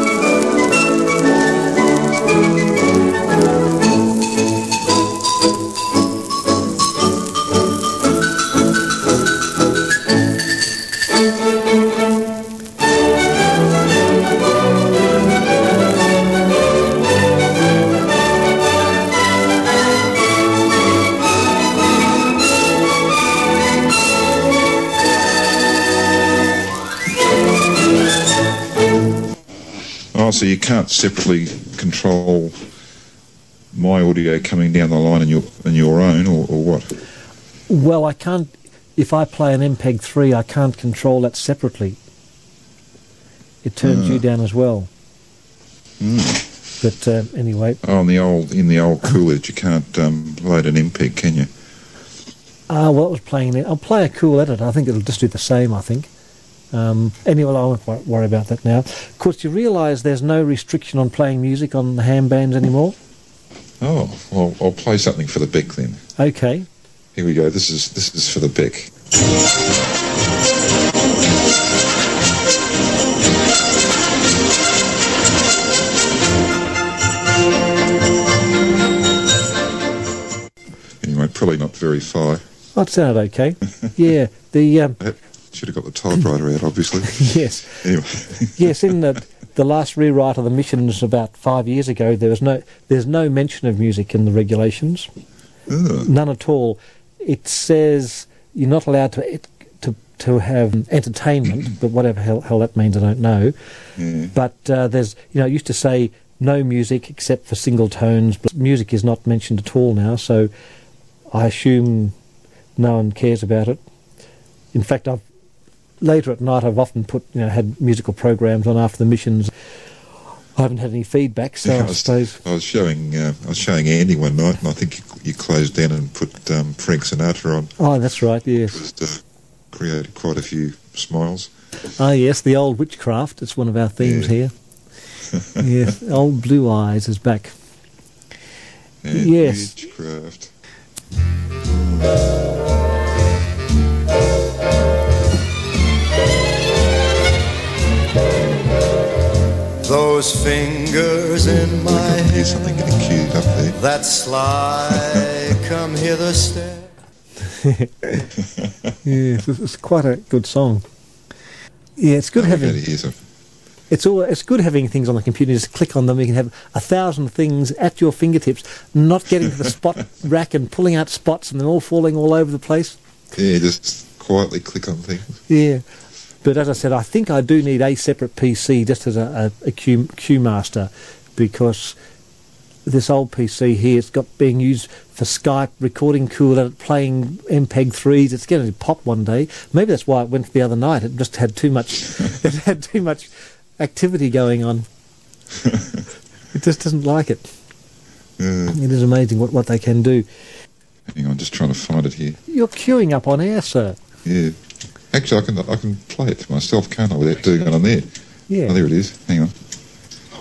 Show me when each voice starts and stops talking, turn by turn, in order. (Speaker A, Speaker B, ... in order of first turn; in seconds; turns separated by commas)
Speaker A: 30.1-32.5, Speaker A: 33.7-36.9, Speaker B: 37.7-42.0, Speaker B: 43.6-44.9, Speaker A: 43.8-44.2, Speaker A: 46.0-46.4, Speaker B: 46.8-47.8, Speaker A: 47.8-51.5, Speaker B: 52.7-56.1, Speaker B: 56.7-63.0, Speaker A: 63.8-66.0, Speaker B: 66.2-66.7, Speaker A: 67.2-68.9, Speaker A: 81.0-82.5, Speaker B: 82.8-85.0, Speaker A: 85.0-88.9, Speaker B: 87.1-87.8, Speaker B: 88.6-95.1, Speaker A: 95.7-96.1, Speaker B: 96.0-103.5, Speaker A: 104.0-104.3, Speaker B: 104.3-110.5, Speaker B: 111.3-112.1, Speaker B: 112.8-113.8, Speaker B: 114.7-115.2, Speaker B: 116.0-119.5, Speaker B: 120.6-122.4, Speaker A: 121.6-127.7, Speaker B: 127.8-128.8, Speaker A: 128.7-129.2, Speaker A: 129.7-131.5, Speaker B: 132.0-134.5, Speaker A: 134.0-134.3, Speaker A: 135.3-135.7, Speaker B: 135.6-137.5, Speaker A: 139.0-140.5, Speaker B: 139.1-139.7, Speaker A: 141.7-142.2, Speaker C: 149.8-152.4, Speaker A: 151.5-153.8, Speaker C: 153.8-156.9, Speaker B: 157.6-158.3, Speaker B: 159.0-160.8, Speaker B: 162.0-162.8, Speaker A: 162.4-163.2, Speaker B: 163.9-173.0, Speaker A: 173.3-175.4, Speaker B: 175.5-175.8, Speaker B: 176.4-181.9, Speaker B: 182.9-194.9, Speaker B: 196.5-197.5, Speaker A: 198.4-198.8, Speaker B: 198.7-200.3, Speaker A: 201.1-202.4, Speaker B: 202.5-204.0, Speaker A: 204.2-204.6, Speaker A: 205.1-208.1, Speaker B: 208.5-208.8, Speaker A: 208.7-209.5